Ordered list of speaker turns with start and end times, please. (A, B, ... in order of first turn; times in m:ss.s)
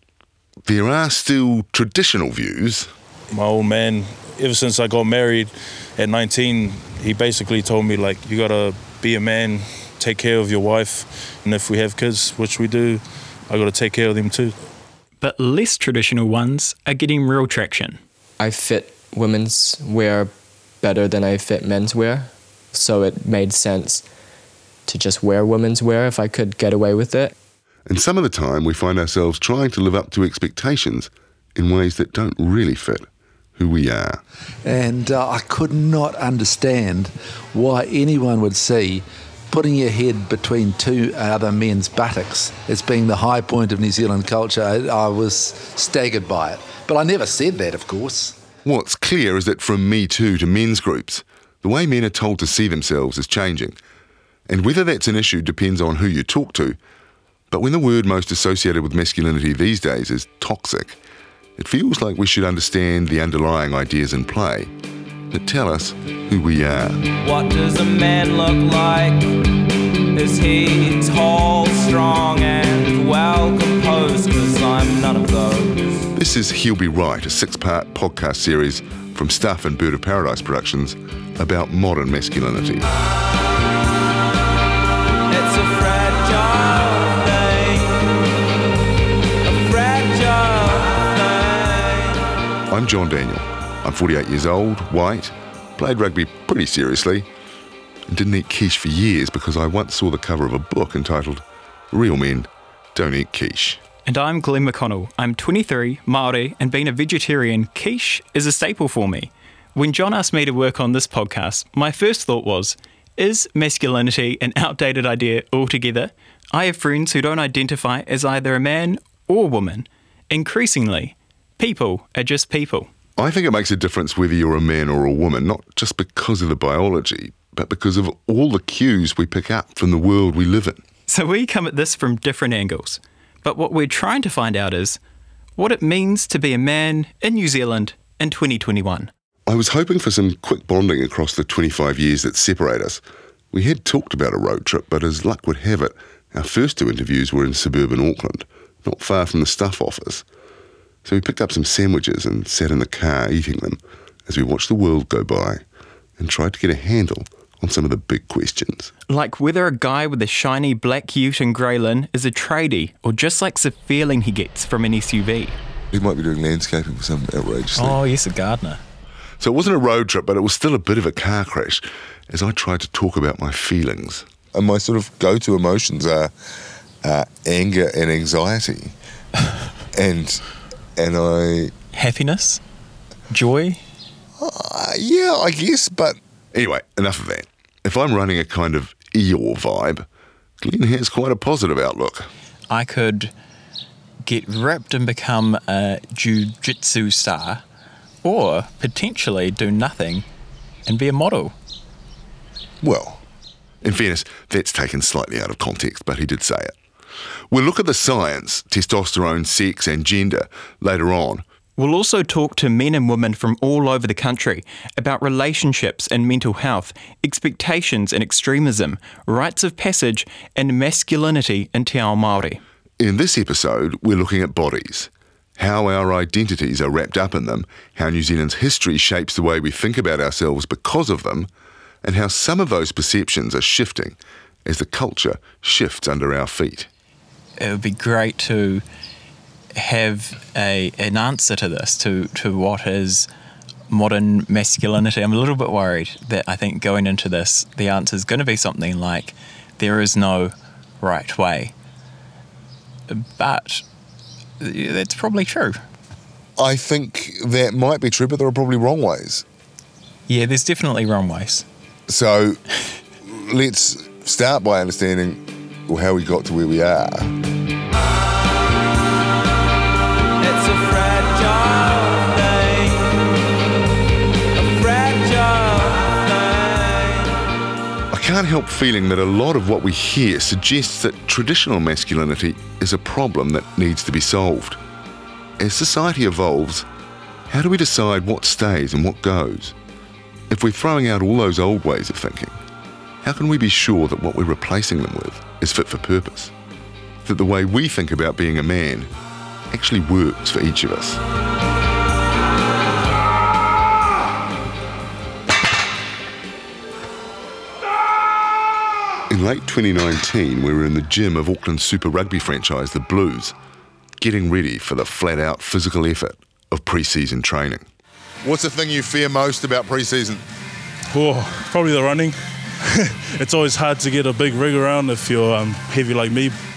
0:00.7-0:02.9 A
0:03.3-0:14.5 B
0:15.2-0:18.0 C
0:18.4-0:24.0 D
0:24.9-0:27.3 D
0:27.9-0:34.2 A
0:34.6-0:48.4 E
0:48.6-0:53.8 A
0:54.5-0:56.8 A
0:57.5-1:01.0 A
1:01.6-1:04.7 A
1:05.3-1:07.0 A
1:07.2-1:09.4 F
1:10.1-1:15.9 F
1:16.1-1:22.9 A
1:25.3-1:28.2 F
1:29.4-1:32.2 F
1:32.7-1:37.3 A
1:38.1-1:43.8 A
1:44.0-2:02.9 C
2:03.2-2:10.8 A
2:11.1-2:15.0 C
2:15.6-2:19.1 C
2:19.5-2:23.0 A
2:23.5-2:30.2 A
2:31.0-2:35.6 A
2:36.2-2:38.9 A
2:39.1-2:45.6 C
2:45.9-2:48.0 G
2:47.8-2:48.8 C
2:49.4-2:54.3 A
2:54.5-2:56.3 G
2:57.0-2:58.9 G
2:59.9-3:00.4 G
3:01.0-3:01.7 G
3:01.9-3:02.6 C
3:03.3-3:03.8 C
3:04.4-3:06.2 G
3:06.5-3:10.0 A
3:10.6-3:12.3 A
3:12.7-3:13.3 C
3:14.2-3:17.6 C
3:18.2-3:20.2 C
3:20.8-3:21.5 C
3:22.8-3:23.2 A
3:23.8-3:26.7 A
3:27.5-3:31.4 A
3:31.8-3:42.6 C
3:43.0-3:51.5 A
3:52.0-3:56.9 A
3:57.6-3:58.8 C
3:59.8-4:03.3 C
4:03.9-4:11.7 C
4:13.1-4:13.8 C
4:14.6-4:15.8 C
4:16.6-4:19.4 G
4:20.3-4:21.6 C
4:22.1-4:22.6 G
4:23.2-4:27.3 G
4:30.4-4:33.3 F
4:34.5-4:37.3 F
4:38.1-4:44.8 A
4:45.6-4:46.8 A
4:47.5-4:49.7 A
4:50.5-4:52.6 A
4:53.2-4:56.5 A
4:57.2-4:59.1 A
4:59.7-5:01.2 A
5:09.3-5:13.5 A
5:14.2-5:17.8 A
5:18.4-5:20.4 G
5:21.1-5:26.6 B